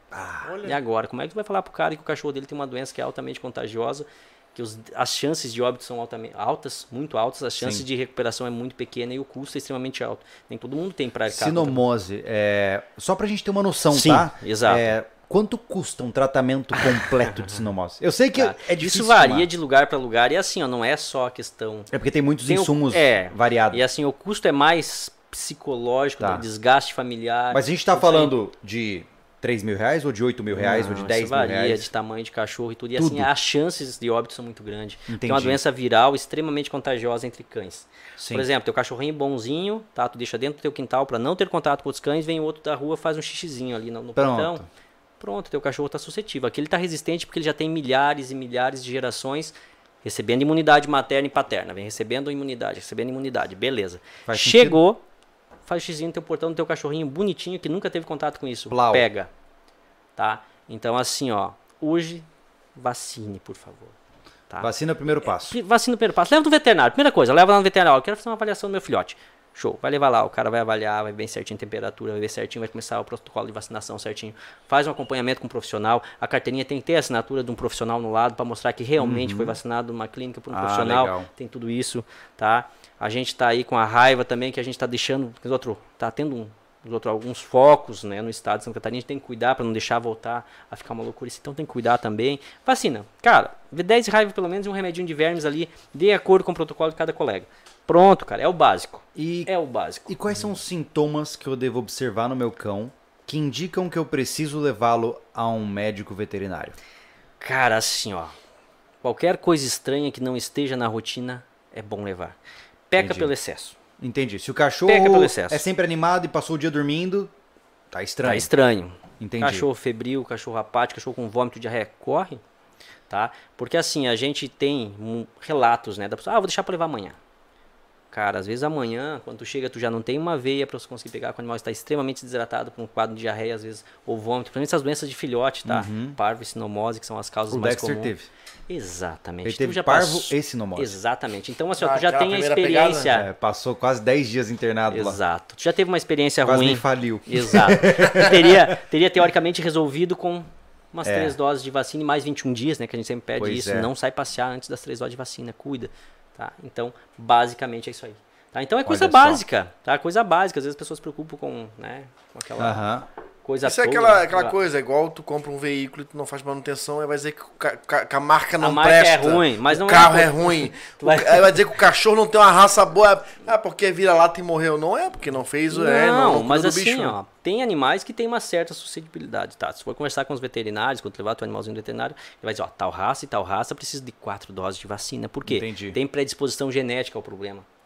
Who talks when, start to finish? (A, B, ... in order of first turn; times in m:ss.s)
0:00.1-0:00.6 A
0:00.4-0:00.8 B
0:00.6-0:11.8 C
0:07.6-0:07.8 A
0:11.3-0:19.5 A
0:13.9-0:14.9 C
0:16.8-0:17.6 C
0:18.4-0:21.9 C
0:21.9-0:23.8 A
0:22.5-0:28.3 C
0:27.5-0:31.9 A
0:30.5-0:44.6 C
0:33.0-0:33.3 A
0:35.1-0:35.6 A
0:38.2-0:38.5 A
0:44.2-0:44.7 A
0:45.2-0:55.0 C
0:54.3-0:54.8 A
0:55.7-0:59.3 C
0:58.7-0:59.1 A
1:00.2-1:04.0 C
1:04.6-1:05.6 A
1:05.2-1:40.2 C
1:19.0-1:19.6 A
1:20.5-1:21.3 A
1:39.2-1:39.5 A
1:40.1-1:46.8 A
1:47.4-1:48.3 C
1:49.0-1:52.4 C
1:52.9-1:53.8 C
1:53.0-1:53.3 A
1:54.0-1:57.3 A
1:54.9-1:55.6 C
1:57.9-1:58.5 A
1:58.2-2:02.4 C
1:59.2-1:59.7 A
2:03.1-2:07.2 C
2:08.1-2:18.1 C
2:15.7-2:16.2 A
2:17.5-2:18.3 A
2:18.7-2:23.3 C
2:19.4-2:21.0 A
2:21.8-2:23.2 B
2:23.1-2:25.2 A
2:24.9-2:42.8 C
2:26.4-2:28.8 A
2:31.0-2:31.4 A
2:33.4-2:33.9 A
2:38.9-2:39.4 A
2:42.6-2:43.1 A
2:43.4-2:44.6 C
2:43.6-2:57.2 B
2:48.6-2:51.6 C
2:55.7-3:07.6 C
3:05.5-3:06.0 A